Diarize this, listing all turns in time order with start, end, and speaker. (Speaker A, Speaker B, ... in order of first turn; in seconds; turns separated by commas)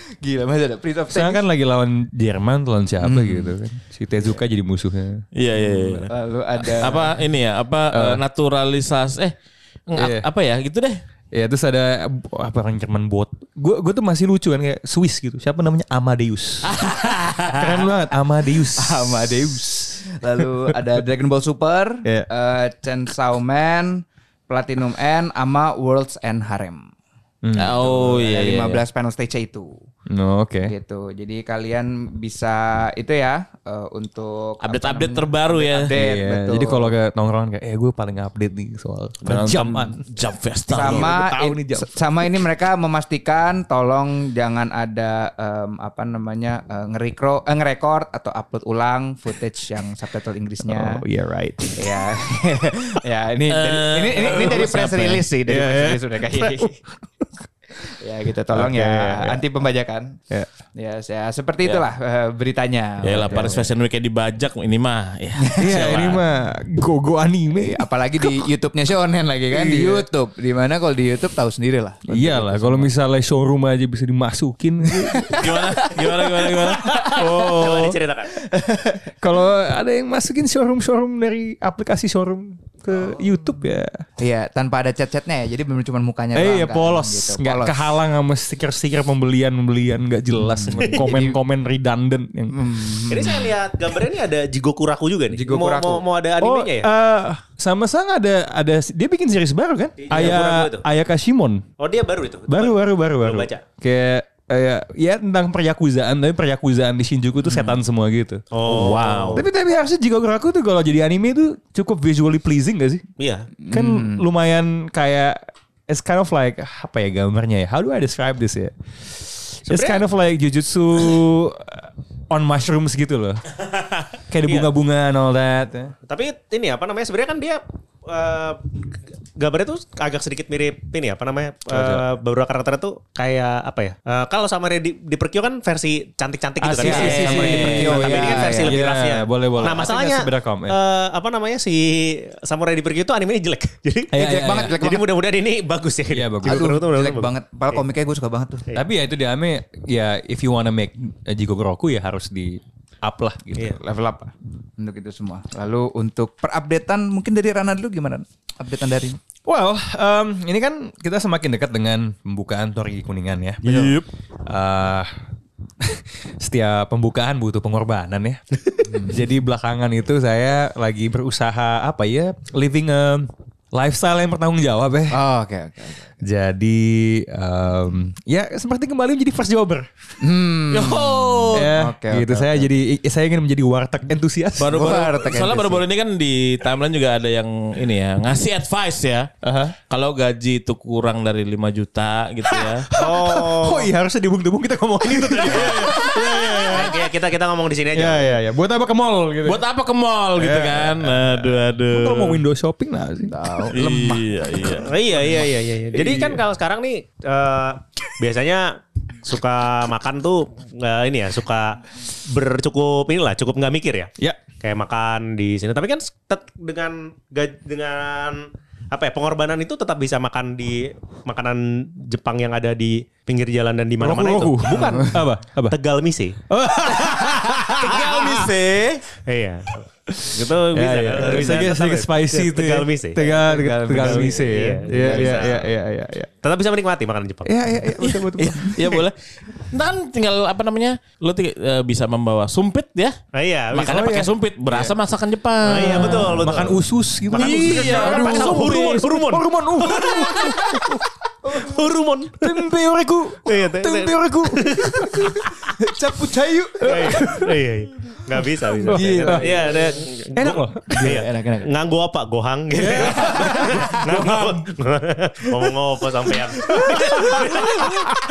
Speaker A: 0.2-1.4, Speaker B: 1.1-5.2, Speaker A: 3.0-3.5, Speaker C: 5.3-9.3, Speaker A: 5.7-7.2, Speaker B: 7.9-8.2, Speaker C: 9.9-11.0, Speaker B: 9.9-10.3, Speaker B: 11.3-16.8, Speaker C: 16.6-17.9, Speaker B: 17.5-19.6, Speaker A: 18.8-26.9, Speaker B: 27.4-27.9, Speaker C: 27.5-28.8, Speaker A: 27.8-29.8, Speaker B: 30.1-30.7, Speaker A: 30.6-36.9, Speaker C: 34.6-35.9, Speaker B: 35.9-40.0, Speaker C: 39.2-41.2, Speaker A: 40.7-51.0, Speaker B: 40.7-42.0, Speaker B: 50.6-52.0, Speaker A: 51.8-56.8, Speaker C: 53.5-55.2, Speaker B: 54.2-54.7, Speaker B: 55.5-56.9, Speaker A: 57.9-60.2, Speaker B: 58.5-59.4, Speaker A: 60.8-63.7, Speaker C: 63.0-66.2, Speaker B: 63.2-63.6, Speaker A: 65.5-65.9, Speaker B: 65.6-68.3, Speaker A: 67.5-72.9, Speaker B: 69.5-70.0, Speaker B: 72.1-75.3, Speaker A: 75.0-77.6, Speaker C: 75.3-78.0, Speaker B: 76.7-78.0, Speaker D: 77.4-78.3, Speaker A: 78.4-79.1, Speaker B: 79.2-84.0, Speaker A: 84.2-87.9, Speaker B: 86.3-92.8, Speaker A: 90.5-91.4, Speaker A: 92.5-93.5, Speaker D: 93.1-96.9, Speaker A: 95.3-96.0, Speaker B: 96.4-101.7, Speaker D: 100.0-100.8, Speaker D: 101.8-103.6, Speaker B: 102.5-108.5, Speaker D: 108.5-109.4, Speaker C: 108.6-109.5, Speaker B: 109.3-113.0, Speaker D: 113.2-113.5, Speaker A: 113.6-114.2, Speaker B: 113.7-123.4, Speaker D: 119.7-120.0, Speaker B: 124.3-125.9, Speaker D: 126.0-128.8, Speaker D: 129.3-147.8, Speaker B: 131.7-132.0, Speaker B: 136.6-140.8, Speaker A: 136.8-138.8, Speaker C: 136.9-138.0, Speaker B: 144.1-144.8, Speaker A: 144.1-145.1, Speaker B: 146.1-146.8, Speaker A: 146.4-148.6, Speaker B: 148.7-153.8, Speaker A: 153.8-159.2, Speaker B: 159.4-165.1, Speaker C: 163.6-164.1, Speaker B: 165.8-175.2, Speaker A: 175.1-176.1, Speaker B: 176.2-179.9, Speaker A: 180.2-182.7, Speaker C: 180.7-181.7, Speaker B: 181.5-185.0, Speaker C: 184.6-189.3, Speaker A: 184.6-185.8, Speaker B: 189.4-189.8, Speaker C: 189.9-192.9, Speaker B: 192.5-197.0, Speaker D: 192.9-193.9, Speaker D: 195.0-196.1, Speaker C: 195.5-196.8, Speaker D: 196.6-198.4, Speaker B: 197.9-199.6, Speaker C: 199.4-202.4, Speaker B: 200.3-206.4, Speaker A: 203.3-203.9, Speaker C: 203.7-204.9, Speaker D: 204.8-226.4, Speaker B: 224.0-225.8, Speaker B: 226.5-228.1, Speaker D: 227.1-228.5, Speaker C: 227.7-229.0, Speaker D: 229.2-235.7, Speaker B: 230.2-236.3, Speaker D: 236.4-237.5, Speaker B: 237.4-239.0, Speaker C: 238.0-243.2, Speaker D: 243.3-244.9, Speaker C: 243.7-246.5, Speaker B: 243.8-244.3, Speaker D: 245.6-252.6, Speaker B: 245.8-251.7, Speaker C: 247.3-249.2, Speaker B: 252.4-257.6, Speaker D: 253.4-255.7, Speaker D: 256.8-268.1, Speaker B: 258.3-259.8, Speaker A: 259.2-259.6, Speaker B: 260.3-261.2, Speaker A: 260.9-261.7, Speaker B: 262.7-264.4, Speaker A: 263.4-264.0, Speaker C: 264.0-264.6, Speaker B: 266.7-268.0